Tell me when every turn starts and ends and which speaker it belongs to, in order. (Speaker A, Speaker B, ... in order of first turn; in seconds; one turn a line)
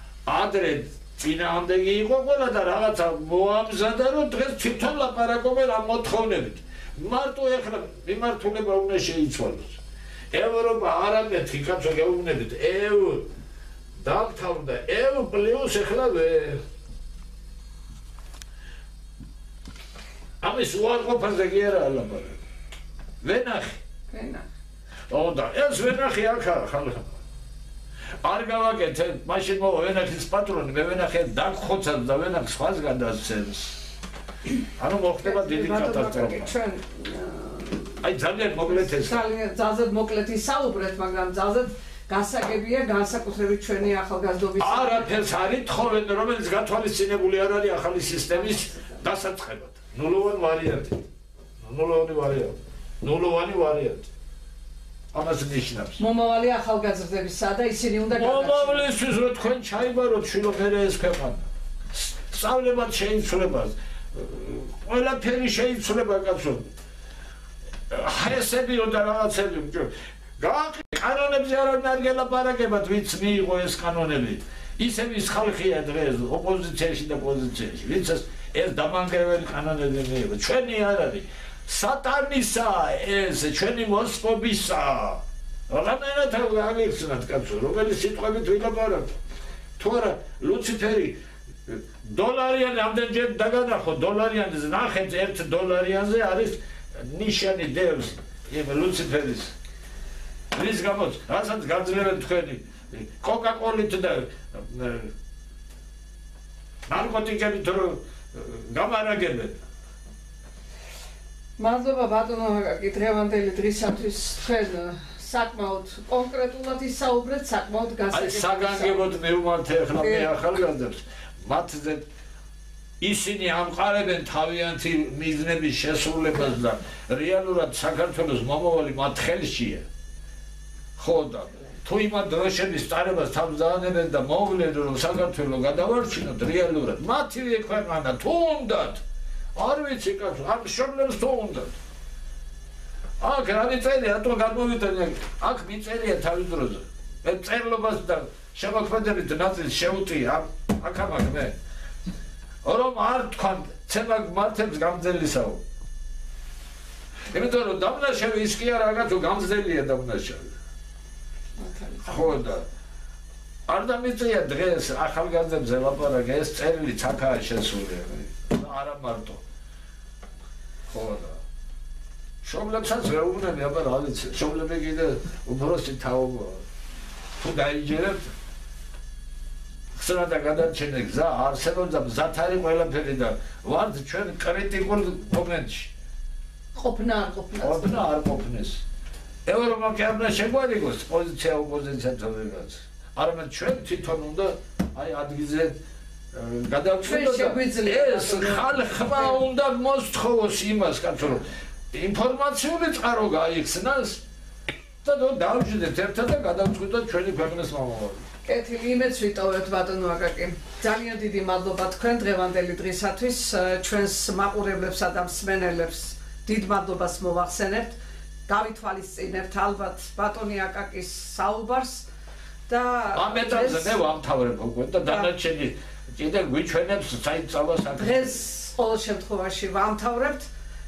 Speaker A: 0.2-9.8
Speaker A: 10.3-13.3
Speaker A: 14.0-16.6
Speaker A: 20.4-22.4
Speaker A: 23.2-23.8
Speaker B: 24.1-24.5
Speaker A: 25.1-27.1
Speaker A: 28.2-33.8
Speaker A: 34.8-36.5
Speaker B: 35.2-38.0
Speaker A: 38.0-39.2
Speaker B: 38.6-45.1
Speaker A: 44.6-51.1
Speaker B: 48.5-49.0
Speaker A: 51.6-54.1
Speaker A: 55.1-56.0
Speaker B: 56.0-58.9
Speaker A: 58.1-66.7
Speaker A: 67.9-89.1
Speaker A: 89.8-91.2
Speaker A: 91.7-99.5
Speaker A: 100.5-105.1
Speaker A: 106.9-109.6
Speaker B: 111.6-119.0
Speaker A: 118.1-122.0
Speaker B: 120.0-120.3
Speaker A: 123.0-129.8
Speaker A: 131.0-139.0
Speaker A: 139.5-141.7
Speaker A: 143.2-151.5
Speaker A: 152.6-155.6
Speaker A: 157.3-160.5
Speaker B: 161.6-162.3
Speaker A: 162.0-162.6
Speaker A: 163.7-169.4
Speaker A: 170.9-171.4
Speaker A: 172.4-176.6
Speaker A: 177.4-178.3
Speaker A: 179.9-185.9
Speaker B: 186.7-188.1
Speaker A: 187.6-188.8
Speaker A: 189.4-195.8
Speaker A: 196.3-204.2
Speaker B: 197.0-199.4
Speaker A: 205.0-208.2
Speaker B: 208.4-222.1
Speaker B: 222.7-224.0
Speaker A: 223.1-228.4
Speaker B: 225.0-225.3
Speaker B: 227.9-230.5